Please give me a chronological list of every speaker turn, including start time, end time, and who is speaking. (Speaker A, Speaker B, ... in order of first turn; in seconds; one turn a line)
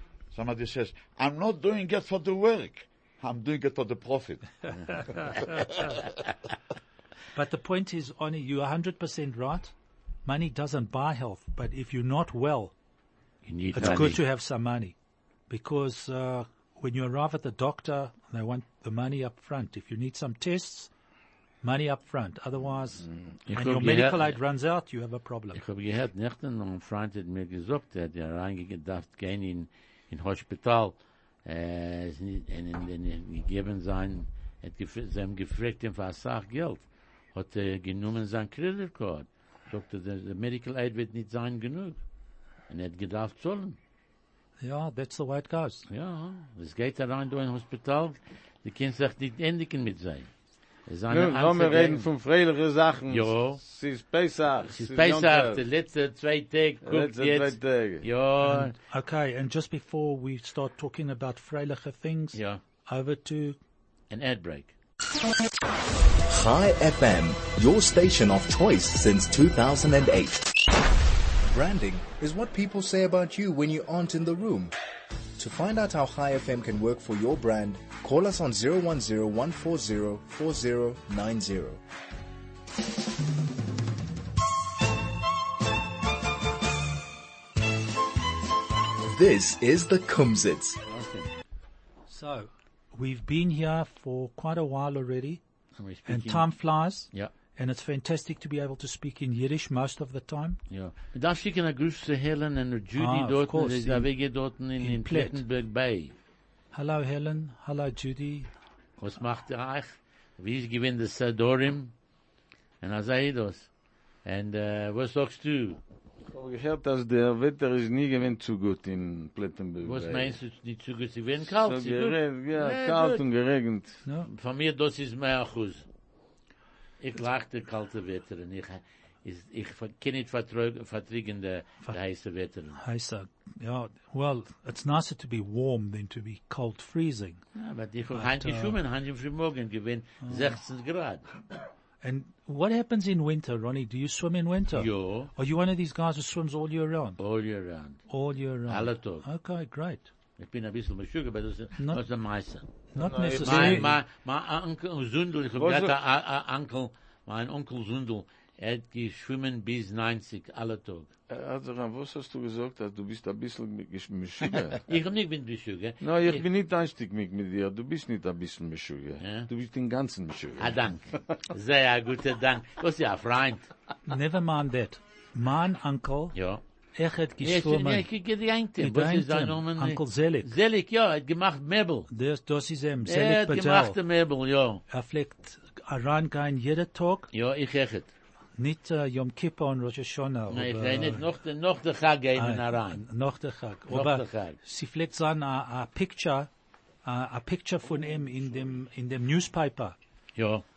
Speaker A: 0.3-6.0
Speaker B: 7.3-9.7
Speaker B: 10.2-12.7
Speaker C: 13.5-14.2
Speaker B: 13.7-14.9
Speaker B: 15.5-20.9
Speaker B: 21.6-25.6
Speaker C: 23.5-24.4
Speaker C: 25.5-42.0
Speaker C: 42.7-43.8
Speaker B: 44.6-45.9
Speaker C: 45.9-50.3
Speaker C: 50.9-52.1
Speaker D: 51.1-55.6
Speaker C: 53.1-53.6
Speaker C: 54.7-58.8
Speaker D: 56.8-58.0
Speaker B: 58.4-63.6
Speaker C: 62.4-62.6
Speaker C: 64.1-64.7
Speaker E: 66.3-70.5
Speaker E: 71.4-74.7
Speaker E: 75.4-81.8
Speaker E: 89.1-90.8
Speaker C: 90.9-91.3
Speaker B: 92.1-95.4
Speaker C: 95.8-96.5
Speaker B: 96.1-100.6
Speaker C: 100.7-106.1
Speaker B: 103.0-104.1
Speaker B: 104.8-105.4
Speaker B: 106.7-108.5
Speaker C: 109.0-111.9
Speaker C: 112.8-113.7
Speaker C: 114.2-115.8
Speaker D: 116.3-120.4
Speaker C: 119.8-123.2
Speaker D: 121.6-124.0
Speaker C: 124.3-125.8
Speaker C: 127.0-132.8
Speaker B: 132.8-137.4
Speaker C: 137.6-141.2
Speaker B: 138.1-138.8
Speaker B: 140.2-140.5
Speaker B: 142.0-147.2
Speaker C: 144.7-145.3
Speaker C: 147.2-148.0
Speaker B: 148.1-150.1
Speaker C: 148.7-149.2
Speaker C: 150.4-152.7
Speaker B: 152.9-154.0
Speaker D: 153.0-153.9
Speaker C: 153.4-161.1
Speaker D: 155.6-155.9
Speaker D: 161.3-164.8
Speaker C: 164.9-166.4
Speaker D: 166.0-170.8
Speaker C: 169.2-169.5
Speaker C: 170.6-173.7
Speaker B: 174.1-176.3
Speaker C: 176.3-176.6
Speaker B: 176.9-178.1
Speaker C: 177.4-182.1
Speaker B: 178.8-180.5
Speaker B: 182.1-184.0
Speaker C: 183.0-184.8
Speaker B: 184.9-187.3
Speaker C: 187.3-188.1
Speaker B: 188.6-191.2
Speaker C: 190.5-193.0
Speaker B: 192.4-196.5
Speaker C: 193.9-194.6
Speaker B: 197.1-200.0
Speaker C: 200.4-200.6